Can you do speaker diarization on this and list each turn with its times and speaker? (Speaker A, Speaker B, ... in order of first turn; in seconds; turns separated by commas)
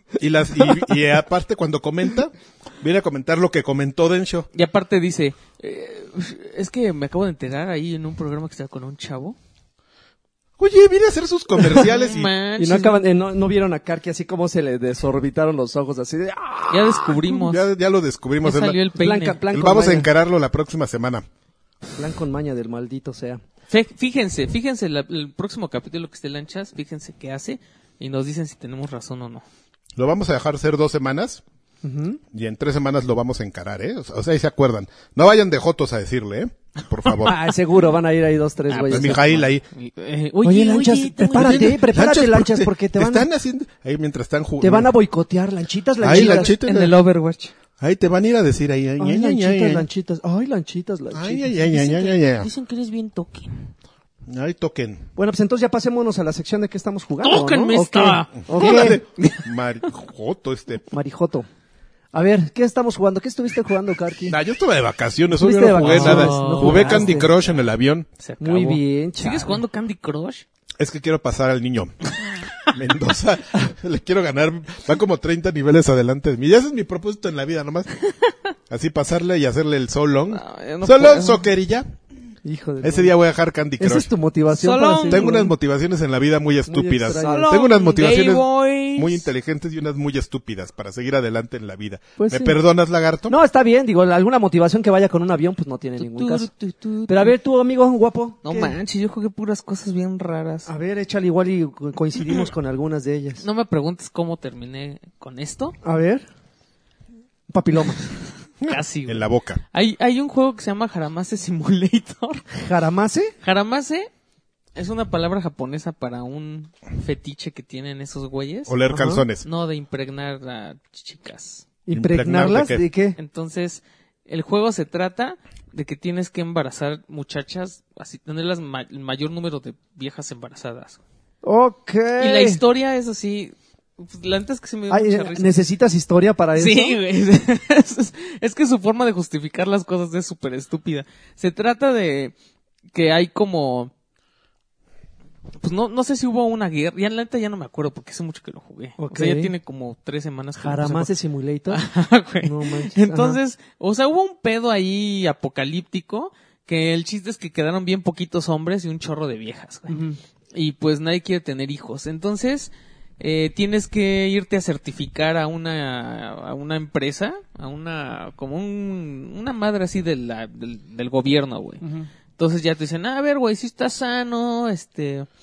Speaker A: 0.2-4.5, Speaker B: 4.5-9.4, Speaker A: 10.6-12.3, Speaker B: 11.7-13.0, Speaker C: 12.6-17.2, Speaker B: 16.7-17.7, Speaker A: 17.3-18.8, Speaker B: 18.4-19.4, Speaker C: 18.9-20.1, Speaker A: 19.5-21.2, Speaker C: 21.9-23.4, Speaker B: 23.7-29.4, Speaker A: 30.0-31.4, Speaker C: 31.8-32.2, Speaker A: 32.3-37.4, Speaker C: 37.2-39.4, Speaker B: 38.7-41.8, Speaker A: 38.8-39.6, Speaker C: 40.4-43.3, Speaker A: 41.3-44.9, Speaker C: 44.6-46.5, Speaker A: 46.0-47.0, Speaker B: 46.1-47.5, Speaker A: 47.8-49.9, Speaker C: 49.0-51.5, Speaker A: 51.1-52.5, Speaker B: 51.5-53.7, Speaker A: 54.3-55.0, Speaker C: 55.2-59.0, Speaker B: 57.2-59.5, Speaker A: 58.4-60.8, Speaker C: 60.9-61.5, Speaker C: 62.1-64.4, Speaker A: 64.3-68.1, Speaker C: 65.4-67.3, Speaker B: 65.8-67.1, Speaker B: 68.2-70.4, Speaker C: 68.4-69.6, Speaker A: 70.8-78.0, Speaker A: 78.7-81.9, Speaker B: 80.3-81.5, Speaker C: 82.4-83.1, Speaker A: 82.8-84.1, Speaker C: 83.8-85.5, Speaker B: 84.5-85.5, Speaker A: 85.1-93.3, Speaker C: 86.7-87.5, Speaker B: 87.2-89.3, Speaker C: 92.2-92.5, Speaker C: 93.3-96.5, Speaker B: 96.0-97.3, Speaker C: 97.1-98.8, Speaker B: 98.4-100.7, Speaker C: 100.7-103.4, Speaker B: 103.4-105.8, Speaker C: 105.8-106.2, Speaker C: 107.5-108.0, Speaker A: 108.6-109.6, Speaker B: 108.6-112.5, Speaker C: 112.5-113.3, Speaker B: 113.4-114.1, Speaker B: 114.8-118.8, Speaker A: 118.7-119.4, Speaker C: 118.9-119.2, Speaker B: 119.4-121.7, Speaker C: 121.9-123.2, Speaker A: 121.9-122.8, Speaker B: 123.2-131.0, Speaker C: 131.4-132.6, Speaker B: 132.2-135.6, Speaker C: 134.9-137.0, Speaker B: 136.5-142.3, Speaker B: 142.9-143.9, Speaker B: 145.6-151.1, Speaker C: 149.0-149.5, Speaker C: 150.6-151.8, Speaker B: 151.7-160.0, Speaker C: 152.4-153.4, Speaker C: 159.9-160.2, Speaker B: 160.5-171.8, Speaker C: 171.8-172.1, Speaker B: 172.4-175.3